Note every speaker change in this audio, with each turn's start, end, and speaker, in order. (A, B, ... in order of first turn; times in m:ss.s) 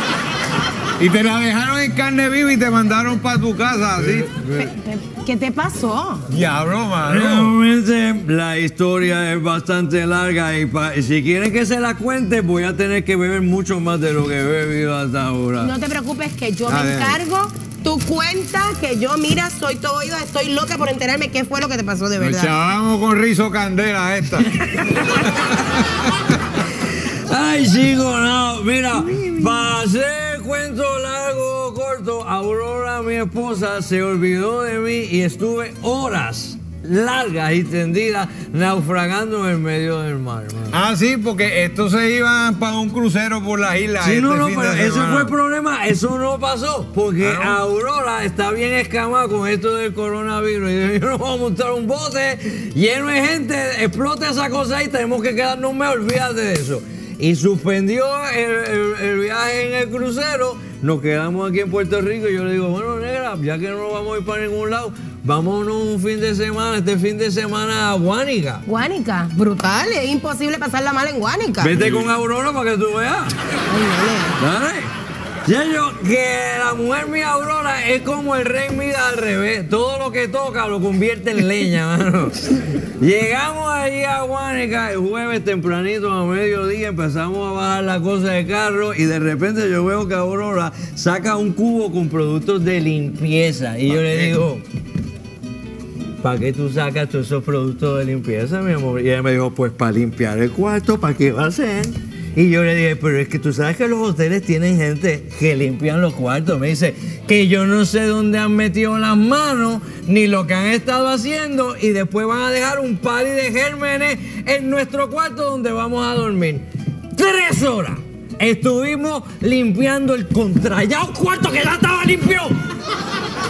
0:01.0-0:04.3 A
0:04.0-0:04.7 B
0:04.5-0:06.2 C
0:06.3-0:07.6 A
0:07.0-0:15.7 B
0:15.6-0:22.5 C
0:16.7-0:17.2 A
0:22.2-0:25.6 A
0:27.0-0:40.8 B
0:40.7-0:45.3 A
0:44.0-1:08.6 B
0:47.2-0:47.6 A
1:08.6-1:11.8 C
1:11.6-1:13.3 B
1:11.7-1:12.1 A
1:13.7-1:14.4 C
1:14.4-1:14.9 B
1:15.4-1:34.6 B
1:33.9-1:34.4 A
1:36.2-2:02.5 B